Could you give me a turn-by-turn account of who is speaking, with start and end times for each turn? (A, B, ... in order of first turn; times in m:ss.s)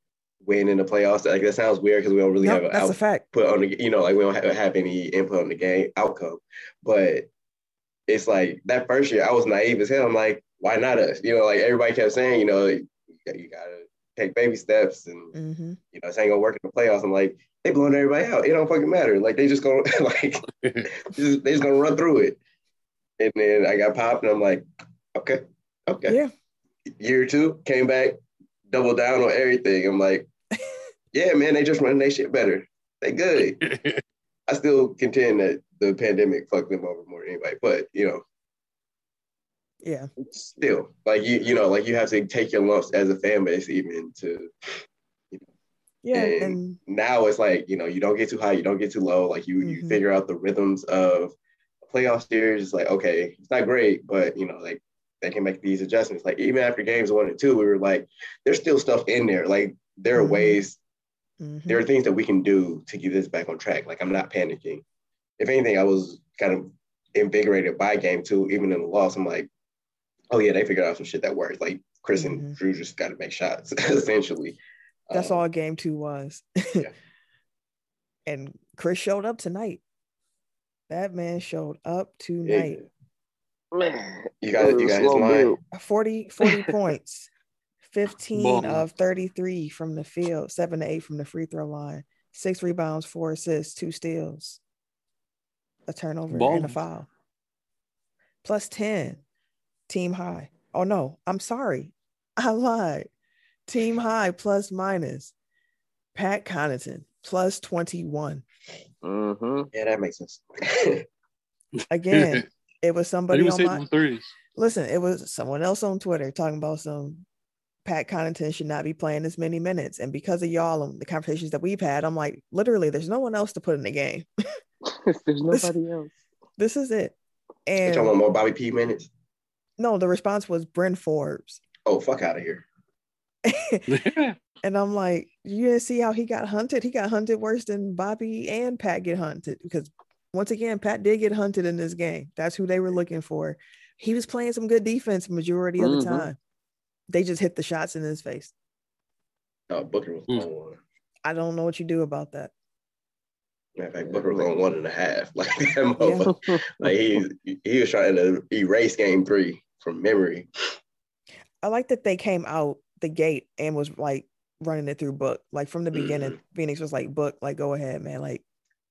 0:00.4-0:07.3 A
0:02.4-0:03.2 B
0:08.1-0:15.3 A
0:15.3-0:15.8 B
0:15.9-0:22.4 A
0:23.2-0:26.2 A
0:26.1-0:26.3 B
0:27.0-0:28.2 A
0:28.7-0:30.3 A
0:31.1-0:33.6 A
0:33.6-0:34.0 C
0:34.5-0:38.2 A
0:39.8-0:40.1 B
0:40.5-0:44.5 A
0:46.0-0:46.8 B
0:46.1-0:51.3 A
0:49.6-0:50.0 B
0:51.8-1:00.8 A
1:00.2-1:00.6 B
1:01.4-1:01.8 B
1:01.7-1:04.8 A
1:05.4-1:09.5 A
1:10.3-1:14.6 A
1:12.2-1:12.6 B
1:15.1-1:15.4 A
1:15.1-1:16.9 B
1:18.2-1:19.8 B
1:20.9-1:22.8 B
1:22.4-1:22.8 A
1:23.7-1:25.6 D
1:24.4-1:25.5 A
1:25.7-1:27.3 B
1:27.9-1:34.6 B
1:28.3-1:28.8 C
1:35.9-1:37.1 B
1:36.3-1:36.8 C
1:38.4-1:39.2 B
1:39.9-1:43.1 B
1:43.7-1:45.3 B
1:46.1-1:48.4 B
1:49.0-1:49.7 D
1:49.7-1:51.0 A
1:51.8-1:52.4 C
1:51.9-1:53.8 B
1:53.3-1:54.3 C
1:54.6-1:57.2 B
1:57.8-2:04.3 B
2:04.9-2:06.1 D
2:06.6-2:08.1 B
2:07.8-2:09.1 A
2:09.8-2:11.6 B
2:11.8-2:12.6 A
2:13.4-2:13.8 B
2:13.9-2:14.4 C
2:14.6-2:26.4 B
2:25.8-2:26.3 D
2:27.1-2:28.5 B
2:29.7-2:30.8 A
2:31.2-2:32.5 B
2:33.8-2:40.5 A
2:34.0-2:34.5 D
2:36.0-2:36.3 B
2:36.3-2:36.9 D
2:41.6-2:48.4 B
2:45.9-2:46.4 A